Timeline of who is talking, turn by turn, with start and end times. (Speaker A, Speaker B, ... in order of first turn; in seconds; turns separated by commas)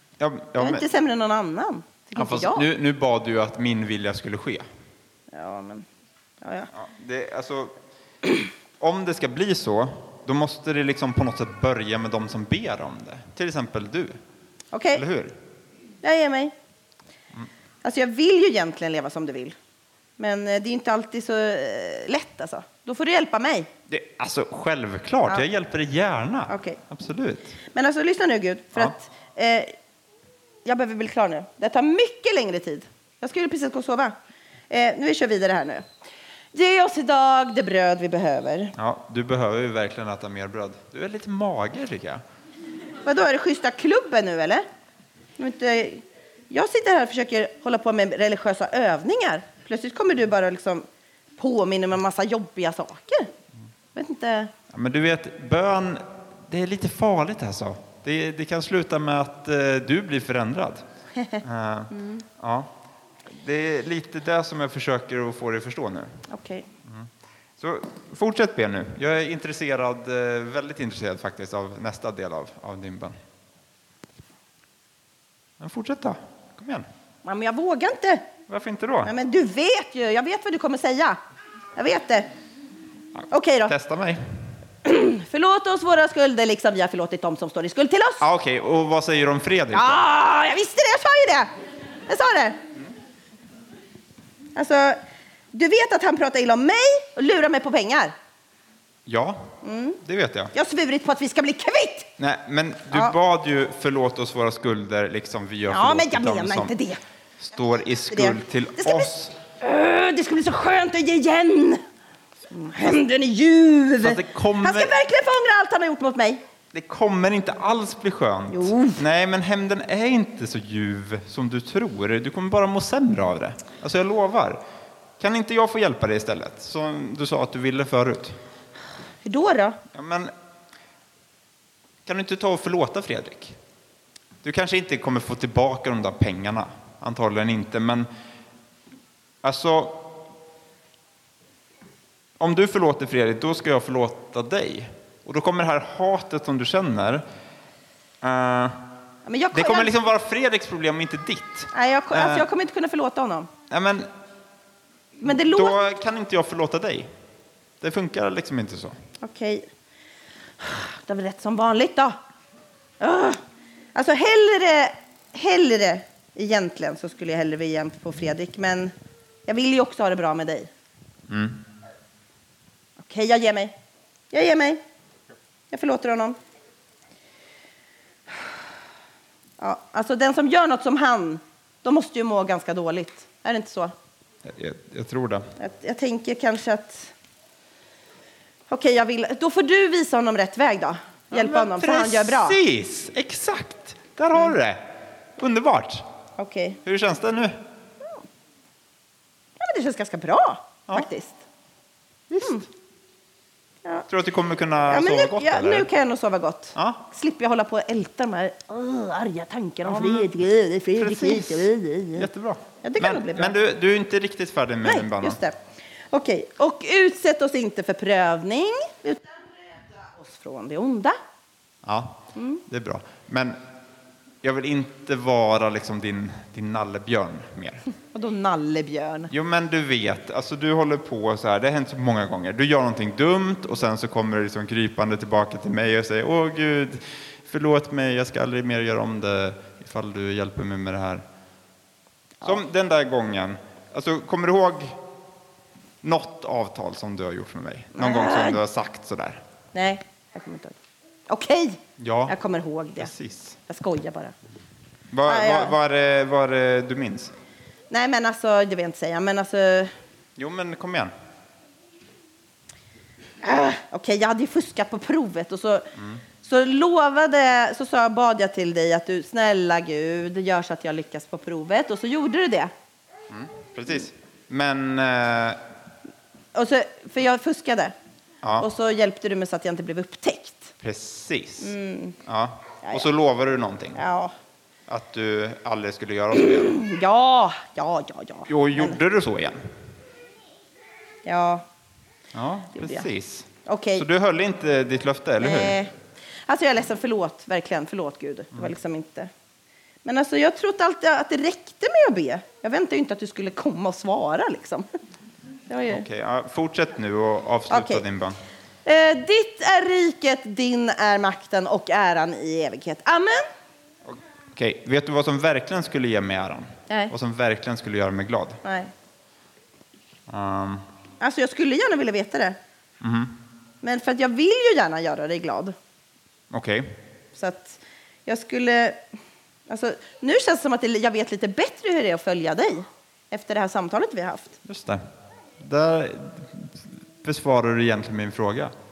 Speaker A: 0.2-0.8, Speaker B: 0.6-2.7, Speaker A: 2.1-4.6, Speaker B: 5.3-5.9, Speaker B: 6.4-6.7, Speaker A: 6.7-7.7, Speaker A: 8.8-14.2, Speaker B: 14.7-15.0, Speaker A: 14.9-15.3, Speaker B: 16.0-16.5, Speaker B: 17.8-19.6, Speaker B: 20.2-23.7, Speaker A: 23.9-27.6, Speaker B: 26.5-26.8, Speaker B: 27.7-29.7, Speaker B: 30.6-34.1, Speaker B: 34.7-35.8, Speaker B: 36.5-38.8, Speaker A: 38.8-42.2, Speaker B: 43.0-44.6, Speaker B: 45.4-50.9, Speaker B: 51.4-53.3, Speaker B: 53.9-54.5, Speaker A: 54.7-60.8, Speaker A: 61.4-62.7, Speaker B: 61.9-62.2, Speaker A: 63.2-66.2, Speaker B: 66.3-66.7, Speaker A: 66.9-73.2, Speaker A: 75.6-76.8, Speaker B: 77.2-78.3, Speaker A: 78.5-79.1, Speaker B: 79.0-81.2, Speaker B: 81.8-82.3, Speaker B: 83.3-83.7, Speaker A: 83.7-84.2, Speaker B: 84.8-88.2, Speaker A: 88.2-90.0, Speaker B: 89.7-91.5, Speaker B: 92.1-92.6, Speaker B: 94.5-95.0, Speaker B: 95.5-98.1, Speaker A: 99.0-100.5, Speaker B: 99.6-100.0, Speaker B: 100.5-102.1, Speaker A: 102.2-106.7, Speaker B: 105.7-107.0, Speaker A: 107.4-109.3, Speaker B: 108.1-111.8, Speaker B: 112.5-116.4, Speaker A: 114.0-114.9, Speaker A: 116.7-124.6, Speaker B: 118.5-119.0, Speaker A: 125.2-128.4, Speaker B: 129.2-129.8, Speaker A: 129.9-130.3, Speaker A: 132.1-133.6, Speaker A: 134.4-138.1, Speaker A: 139.4-140.2, Speaker A: 142.4-147.2, Speaker A: 148.2-148.8, Speaker B: 149.2-150.0, Speaker A: 149.5-152.5, Speaker B: 151.7-153.5, Speaker A: 153.7-154.1, Speaker B: 155.2-155.8, Speaker A: 155.2-157.1, Speaker A: 157.8-158.9, Speaker B: 159.2-159.7, Speaker B: 160.6-162.1, Speaker B: 163.0-163.4, Speaker B: 163.9-168.9, Speaker B: 169.5-170.7, Speaker A: 171.3-171.6, Speaker B: 173.0-173.7, Speaker B: 174.3-174.8, Speaker B: 175.7-176.4, Speaker B: 179.6-183.9, Speaker A: 184.4-185.5, Speaker B: 185.6-187.1, Speaker B: 188.7-192.6, Speaker A: 191.3-194.8, Speaker A: 195.4-196.0, Speaker B: 196.4-196.8, Speaker A: 196.8-197.6, Speaker B: 199.6-201.4, Speaker A: 202.3-202.6, Speaker B: 202.4-202.7, Speaker A: 204.1-205.9, Speaker B: 204.9-212.3, Speaker A: 206.8-207.0, Speaker A: 209.8-215.4, Speaker B: 212.8-213.6, Speaker B: 214.8-215.6, Speaker B: 216.1-221.2, Speaker A: 221.8-223.6, Speaker B: 222.3-222.6, Speaker A: 224.4-227.8, Speaker B: 228.1-229.3, Speaker A: 229.3-241.2, Speaker A: 242.4-245.0, Speaker A: 246.0-249.4, Speaker B: 247.9-248.6, Speaker B: 249.7-250.8, Speaker B: 251.3-253.1, Speaker A: 252.0-252.3, Speaker A: 253.0-253.6, Speaker B: 253.7-254.3, Speaker A: 255.1-257.3, Speaker B: 255.3-255.7, Speaker B: 257.9-259.9, Speaker A: 260.4-261.1, Speaker B: 263.4-272.7, Speaker A: 265.9-266.2, Speaker A: 273.3-275.6, Speaker B: 276.5-277.9, Speaker B: 278.6-280.7, Speaker A: 280.8-281.7, Speaker B: 281.6-282.2, Speaker A: 282.2-284.0, Speaker B: 282.8-283.1, Speaker B: 283.9-284.3, Speaker A: 284.9-286.8, Speaker B: 286.3-289.0, Speaker A: 288.5-289.6, Speaker B: 291.2-291.6, Speaker A: 292.3-295.8, Speaker B: 292.8-293.1, Speaker B: 293.6-294.1, Speaker B: 295.4-295.9, Speaker B: 296.4-299.3, Speaker B: 300.0-304.9, Speaker B: 305.7-306.0, Speaker A: 305.9-308.4, Speaker B: 307.7-308.0, Speaker B: 308.8-313.4, Speaker A: 314.1-318.6, Speaker B: 318.6-318.9, Speaker A: 320.3-320.8, Speaker B: 321.2-322.6, Speaker A: 323.0-323.4, Speaker B: 323.8-325.7, Speaker A: 326.5-327.0, Speaker B: 327.3-329.0, Speaker B: 329.7-334.6, Speaker A: 334.6-335.0, Speaker A: 335.6-338.7